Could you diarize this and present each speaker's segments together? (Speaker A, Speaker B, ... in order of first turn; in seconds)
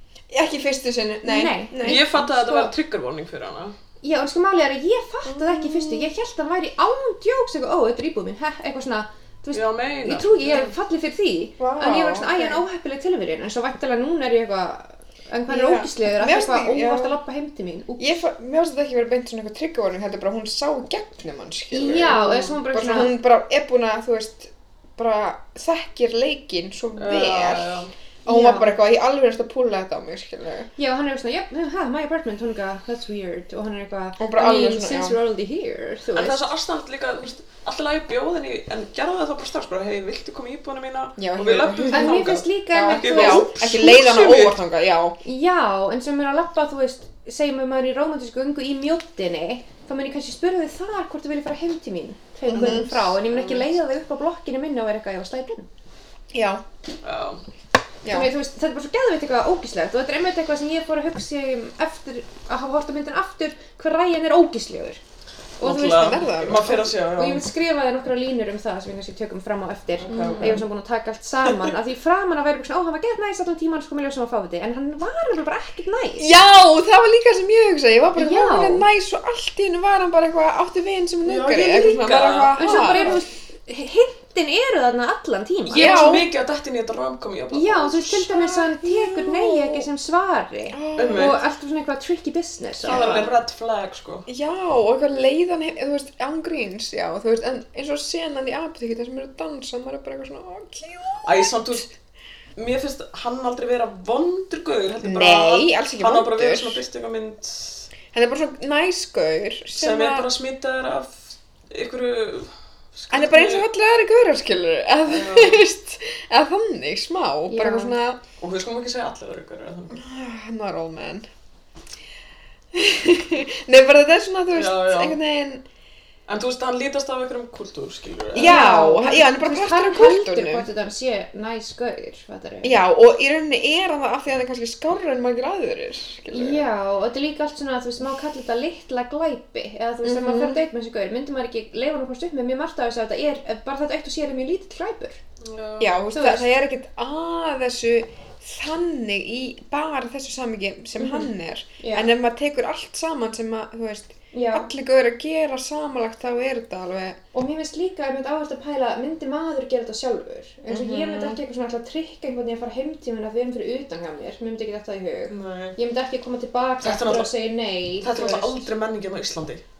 Speaker A: 0.3-2.1, 5.3-6.1, 11.6-12.6, 15.5-17.2, 18.0-30.7, 34.2-35.2, 41.2-45.2, 52.5-53.1, 56.3-56.6, 58.0-58.3, 65.6-66.9, 70.1-70.6, 76.2-83.2, 85.7-86.3, 88.1-89.9, 90.7-91.4, 92.8-93.3, 94.3-101.5, 105.0-106.8, 108.1-110.3, 113.1-118.2, 119.9-121.3, 122.7-125.6, 128.3-130.7, 132.6-136.6, 140.0-140.6, 145.8-157.2, 160.7-161.4
Speaker B: 1.2-2.7, 4.0-18.2, 21.7-23.1, 28.3-28.8, 30.8-36.5, 41.9-43.5, 45.2-55.7, 58.1-65.0, 65.6-66.0, 67.1-76.3, 78.2-78.8, 82.5-86.1, 87.5-93.3, 117.5-118.0, 128.3-132.8, 136.3-145.2, 146.1-146.5, 151.0-151.3, 151.8-152.1, 154.3-154.7, 157.3-168.7
Speaker C: 1.8-3.7, 9.5-10.7, 27.0-27.9, 36.1-44.6, 53.3-53.7, 57.0-57.4, 65.6-67.5, 70.0-70.6, 81.2-83.2, 85.7-88.2, 91.0-91.4, 92.8-94.3, 101.2-101.9, 102.5-107.9, 109.8-113.7, 115.0-115.6, 118.4-120.0, 124.5-125.2, 126.3-128.6, 145.4-145.9, 165.3-165.8, 166.8-167.3, 168.0-169.6